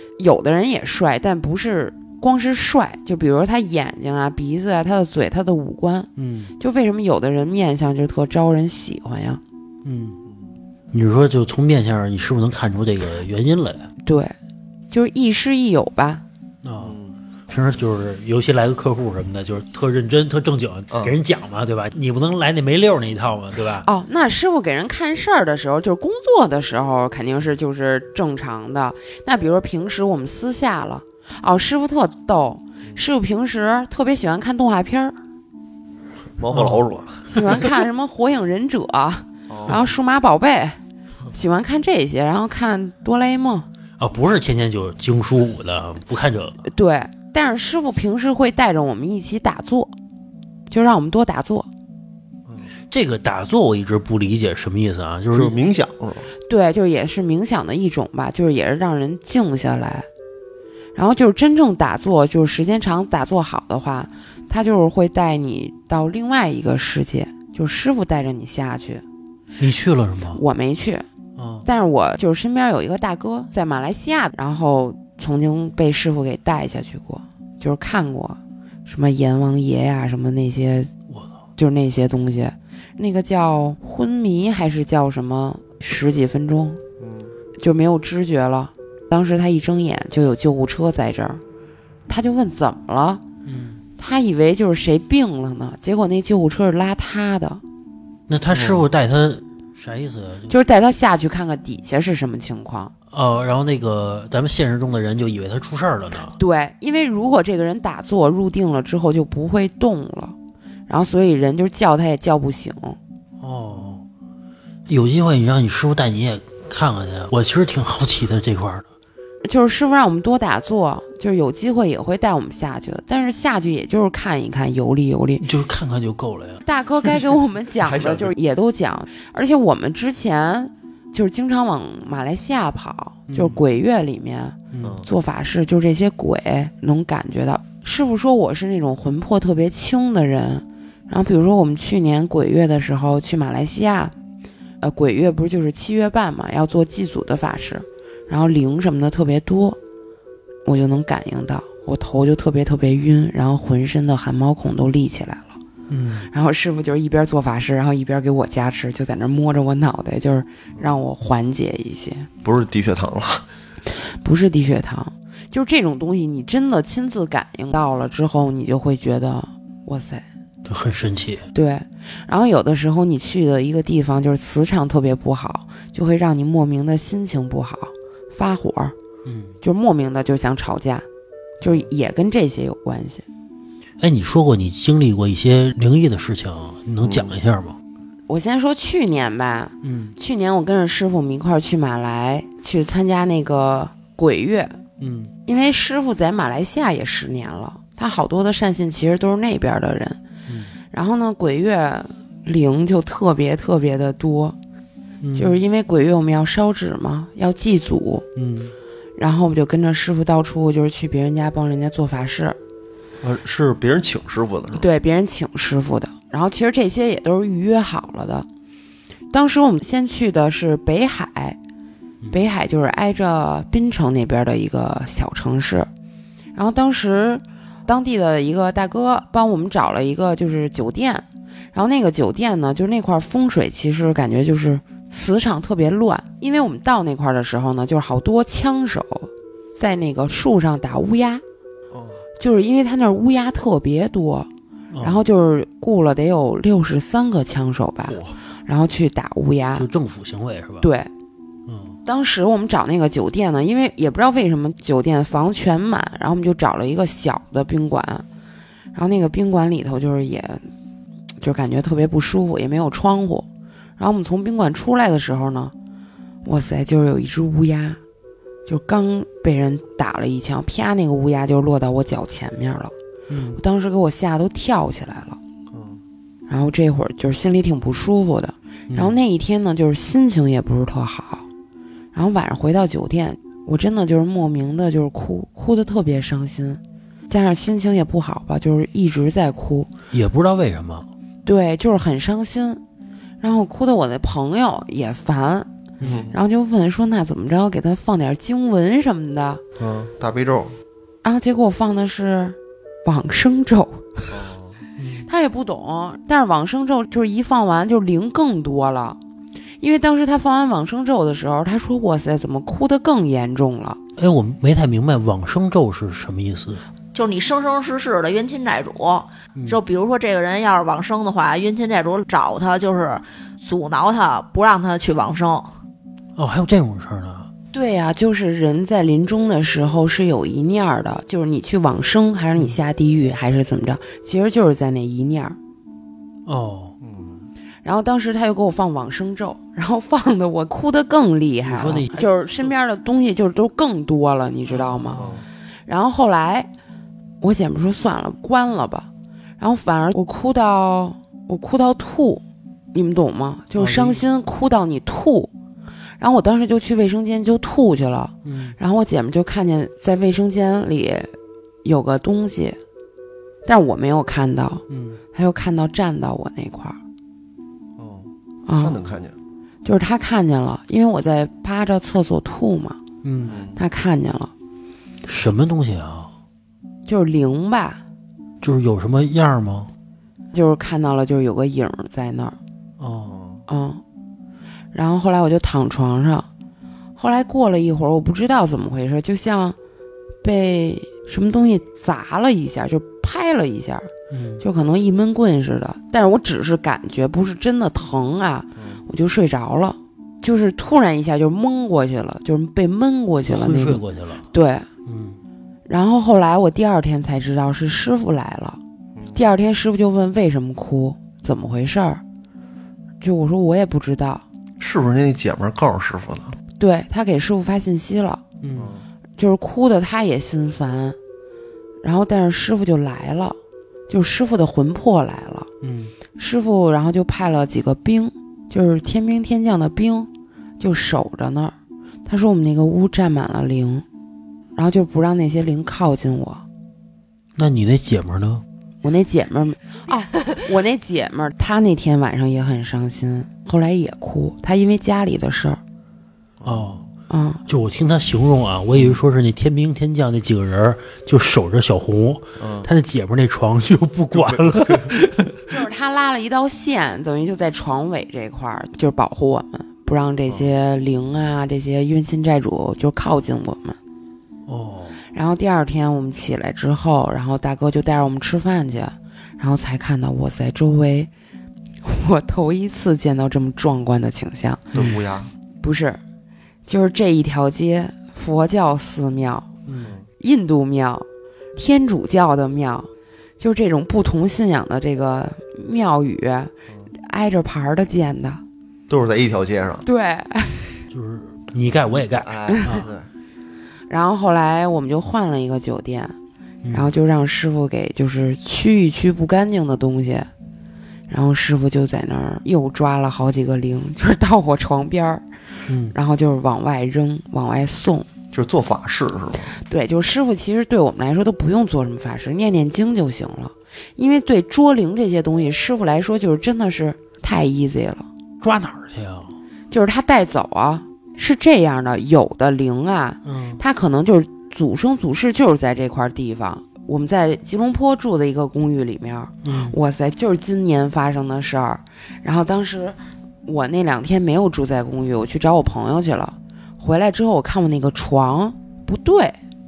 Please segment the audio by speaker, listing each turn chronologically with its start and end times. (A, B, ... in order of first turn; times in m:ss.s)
0:00.2-0:09.4 A
0:06.2-0:06.5 B
0:09.8-0:10.2 B
0:10.9-0:13.9 B
0:14.0-0:14.3 A
0:14.9-0:16.2 A
0:16.6-0:17.0 B
0:16.8-0:17.1 C
0:17.5-0:23.8 B
0:20.9-0:21.2 C
0:23.8-0:35.1 A
0:36.4-0:37.6 C
0:36.5-0:36.9 B
0:37.3-0:40.8 A
0:39.5-0:39.8 C
0:41.3-0:43.7 A
0:44.0-0:46.6 B
0:46.6-0:49.9 A
0:50.7-0:51.7 A
0:52.9-0:55.6 B
0:55.3-0:56.3 C
0:56.5-1:00.1 A
1:00.9-1:09.0 A
1:09.6-1:10.4 B
1:10.3-1:11.0 A
1:11.4-1:11.7 B
1:11.6-1:20.9 A
1:21.1-1:21.3 B
1:21.6-1:26.8 A
1:27.0-1:27.3 C
1:27.6-1:31.4 A
1:32.1-1:33.2 A
1:33.4-1:33.8 B
1:34.0-1:37.6 A
1:38.3-1:40.6 B
1:38.5-1:38.8 C
1:40.5-1:42.9 A
1:43.1-1:46.3 B
1:46.4-1:50.4 A
1:50.9-1:53.0 A
1:53.4-1:54.0 B
1:54.9-1:58.8 B
1:59.4-2:05.4 A
2:05.4-2:06.6 B
2:06.6-2:24.1 A
2:07.8-2:08.3 C
2:13.3-2:13.6 B
2:14.7-2:15.0 B
2:14.8-2:15.1 C
2:24.8-2:29.8 A
2:30.6-2:35.6 A
2:35.9-2:36.3 B
2:36.3-2:42.3 A
2:42.4-2:43.4 C
2:43.9-2:50.2 A
2:50.6-2:51.4 B
2:51.5-2:58.9 A
2:59.2-2:59.6 B
2:59.6-3:01.0 A
3:01.6-3:03.2 A
3:04.0-3:07.8 B
3:07.0-3:07.4 C
3:08.3-3:14.8 A
3:09.8-3:10.2 B
3:15.0-3:15.3 B
3:15.4-3:20.2 A
3:20.5-3:20.7 B
3:20.9-3:24.6 A
3:25.2-3:25.6 B
3:25.3-3:28.2 A
3:28.4-3:28.7 B
3:29.2-3:32.6 A
3:33.2-3:34.8 C
3:34.7-3:38.5 A
3:39.3-3:41.6 A
3:42.3-3:45.9 A
3:46.5-4:01.4 A
4:01.9-4:02.2 C
4:02.4-4:04.5 A
4:04.9-4:05.2 B
4:05.0-4:09.9 A
4:08.0-4:08.4 C
4:09.8-4:10.9 B
4:10.8-4:11.1 A
4:11.7-4:12.0 B
4:12.0-4:18.2 A
4:18.9-4:20.7 A
4:21.4-4:23.4 A
4:24.0-4:25.7 A
4:26.4-4:28.0 A
4:28.7-4:32.9 A
4:33.3-4:33.6 B
4:33.6-4:35.4 A
4:35.7-4:36.0 C
4:36.5-4:41.5 A
4:38.9-4:39.2 B
4:42.1-4:49.9 A
4:50.1-4:51.1 B
4:51.4-4:52.8 A
4:53.4-4:55.7 A
4:56.0-4:56.3 B
4:56.0-4:56.3 C
4:56.3-4:59.6 A
4:59.8-5:00.7 C
5:01.2-5:04.3 A
5:04.3-5:04.8 C
5:05.0-5:05.3 B
5:05.2-5:09.2 A
5:09.8-5:14.0 A
5:14.2-5:16.8 B
5:17.1-5:25.7 D
5:19.5-5:19.8 B
5:26.4-5:27.5 B
5:27.7-5:35.6 A
5:36.4-5:36.9 B
5:37.0-5:37.4 C
5:37.8-5:45.2 A
5:41.6-5:42.3 B
5:44.7-5:45.4 B
5:45.2-5:45.4 C
5:45.8-5:46.7 A
5:47.4-5:49.1 A
5:49.6-5:52.4 A
5:52.9-5:55.5 A
5:53.8-5:54.2 B
5:56.2-6:02.8 A
5:58.4-5:58.8 B
6:03.6-6:07.0 A
6:04.9-6:05.2 B
6:08.0-6:09.4 C
6:08.6-6:09.0 A
6:09.8-6:13.0 A
6:13.2-6:13.6 B
6:13.5-6:13.8 C
6:13.8-6:14.5 A
6:15.2-6:16.3 B
6:17.0-6:18.0 A
6:18.6-6:19.9 B
6:20.5-6:22.6 A
6:23.0-6:23.3 B
6:23.2-6:23.6 C
6:23.7-6:24.0 A
6:24.9-6:26.5 A
6:27.2-6:29.8 A
6:30.4-6:44.9 A
6:34.3-6:34.6 B
6:38.8-6:39.0 C
6:43.5-6:44.4 B
6:45.0-6:45.4 B
6:45.9-6:48.8 A
6:49.3-6:52.2 A
6:53.2-6:54.4 A
6:54.8-6:56.6 C
6:56.8-6:58.4 A
6:58.6-6:58.9 B
6:58.8-6:59.1 C
6:59.4-7:01.2 A
7:02.0-7:03.6 A
7:04.1-7:05.7 A
7:05.8-7:06.1 B
7:06.4-7:11.7 A
7:12.2-7:14.0 A
7:14.8-7:16.6 A
7:17.6-7:18.6 B
7:19.0-7:25.8 A
7:26.6-7:27.0 C
7:26.6-7:27.0 B
7:27.3-7:27.6 A
7:27.7-7:35.6 B
7:28.9-7:29.2 C
7:32.6-7:32.9 C
7:34.3-7:35.1 C
7:35.7-7:44.0 A
7:44.7-7:45.2 B
7:45.3-7:51.3 A
7:52.0-7:54.9 A
7:54.9-7:55.5 C
7:54.9-7:55.2 B
7:55.8-7:56.2 A
7:56.8-7:59.7 A
7:59.9-8:00.1 B
8:00.0-8:00.3 C
8:00.4-8:08.6 A
8:09.1-8:10.0 C
8:10.0-8:11.0 A
8:11.1-8:13.1 B
8:11.8-8:13.3 C
8:12.7-8:13.0 A
8:14.1-8:16.4 A
8:16.8-8:17.1 B
8:16.9-8:20.5 A
8:21.3-8:25.4 A
8:25.9-8:26.1 B
8:26.1-8:28.2 A
8:28.5-8:29.7 C
8:29.8-8:38.3 A
8:38.6-8:39.6 B
8:39.9-8:59.6 A
8:43.4-8:43.8 B
8:49.6-8:50.0 B